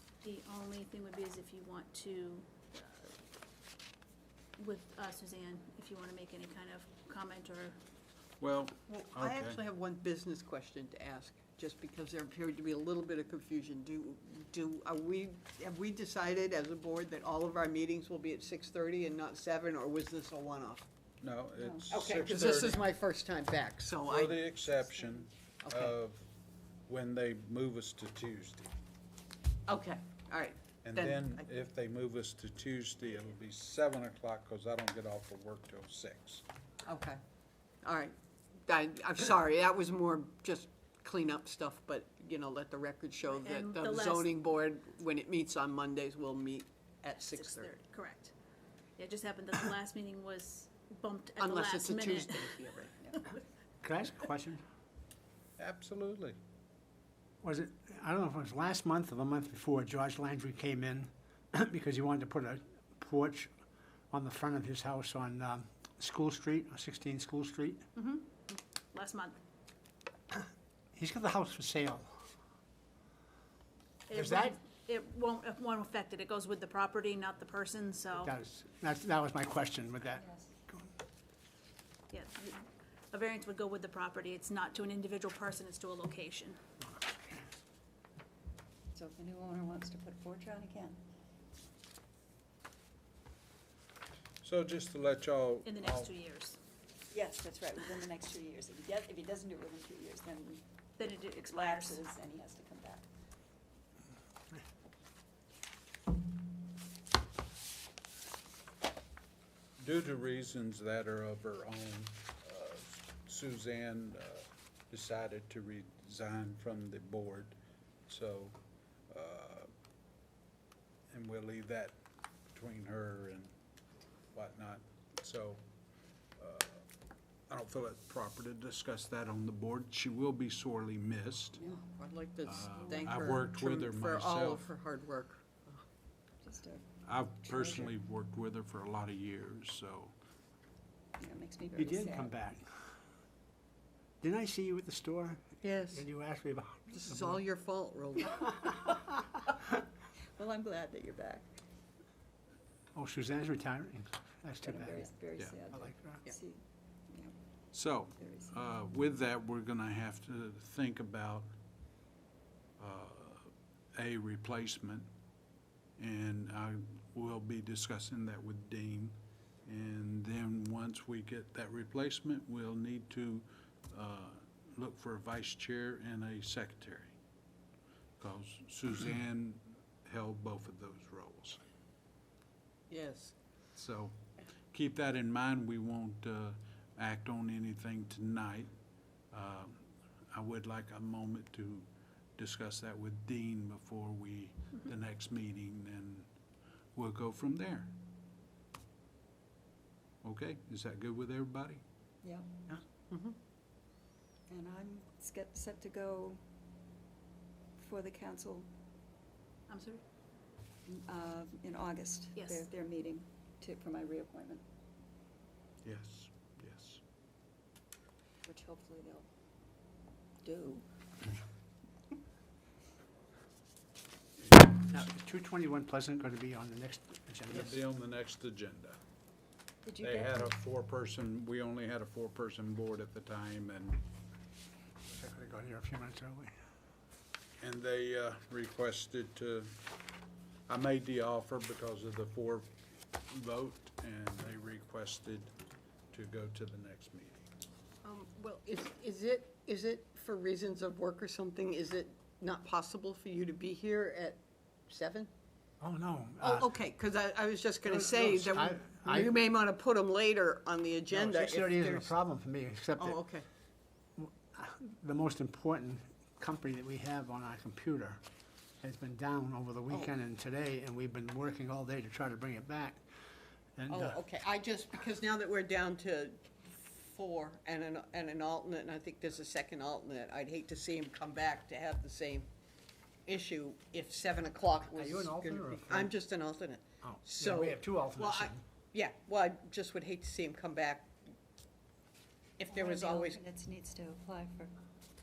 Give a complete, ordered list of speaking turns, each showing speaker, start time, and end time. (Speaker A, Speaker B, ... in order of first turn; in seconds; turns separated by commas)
Speaker A: 0.2-3.1, Speaker A: 4.6-7.8, Speaker B: 8.4-9.6, Speaker C: 8.8-20.9, Speaker B: 21.2-22.9, Speaker D: 21.6-21.9, Speaker C: 21.9-24.6, Speaker B: 24.0-26.2, Speaker C: 25.6-25.9, Speaker B: 26.9-28.7, Speaker C: 29.7-31.5, Speaker B: 30.8-36.4, Speaker C: 36.8-37.2, Speaker C: 37.8-38.1, Speaker C: 38.6-47.7, Speaker A: 43.3-44.4, Speaker A: 47.2-48.3, Speaker A: 49.0-52.6, Speaker C: 51.4-53.1, Speaker E: 53.8-54.6, Speaker B: 55.6-56.4, Speaker E: 57.4-63.5, Speaker E: 64.1-67.8, Speaker A: 68.0-69.4, Speaker E: 70.9-72.1, Speaker A: 74.1-78.3, Speaker E: 74.1-74.6, Speaker E: 78.1-80.8, Speaker D: 80.2-80.5, Speaker A: 82.1-86.6, Speaker D: 88.9-91.0, Speaker B: 94.4-96.1, Speaker A: 95.6-96.6, Speaker D: 97.1-103.1, Speaker A: 101.0-102.0, Speaker B: 109.8-117.6, Speaker B: 118.1-118.5, Speaker B: 119.1-119.7, Speaker B: 121.1-121.9, Speaker B: 122.5-123.5, Speaker B: 124.3-125.6, Speaker B: 126.4-126.8, Speaker B: 127.5-131.6, Speaker D: 131.6-131.8, Speaker C: 131.7-135.8, Speaker B: 132.4-134.7, Speaker D: 132.8-133.2, Speaker D: 136.4-137.9, Speaker B: 137.1-140.1, Speaker D: 141.2-142.3, Speaker E: 141.8-142.7, Speaker E: 144.2-147.4, Speaker C: 145.6-146.0, Speaker C: 146.9-148.6, Speaker D: 150.3-151.5, Speaker E: 152.9-155.1, Speaker D: 154.6-157.3, Speaker E: 155.7-156.2, Speaker B: 157.7-161.5, Speaker D: 158.1-158.8, Speaker B: 162.8-165.1, Speaker B: 166.0-177.1, Speaker B: 178.2-181.6, Speaker C: 182.9-183.3, Speaker B: 183.7-184.1, Speaker B: 184.7-188.7, Speaker B: 189.3-189.8, Speaker B: 190.3-196.3, Speaker B: 196.9-197.9, Speaker B: 200.2-201.8, Speaker D: 202.2-202.5, Speaker C: 203.1-203.4, Speaker D: 204.5-206.4, Speaker D: 207.8-208.7, Speaker A: 209.7-210.0, Speaker D: 210.9-214.6, Speaker A: 212.3-212.7, Speaker B: 215.8-217.0, Speaker D: 218.4-219.3, Speaker D: 220.4-220.8, Speaker E: 224.6-227.7, Speaker B: 227.5-229.0, Speaker D: 229.8-230.5, Speaker B: 230.0-234.0, Speaker E: 235.1-236.5, Speaker B: 237.6-239.7, Speaker B: 240.7-242.7, Speaker B: 243.3-245.5, Speaker B: 246.1-247.4, Speaker C: 248.0-255.3, Speaker E: 255.8-256.7, Speaker C: 256.4-262.1, Speaker E: 257.8-259.3, Speaker E: 261.1-263.2, Speaker C: 263.0-263.4, Speaker E: 264.2-268.2, Speaker E: 268.8-273.0, Speaker E: 273.8-274.2, Speaker C: 273.9-282.5, Speaker C: 283.2-291.2, Speaker E: 284.9-286.1, Speaker E: 287.0-288.6, Speaker C: 292.6-293.4, Speaker D: 292.7-294.7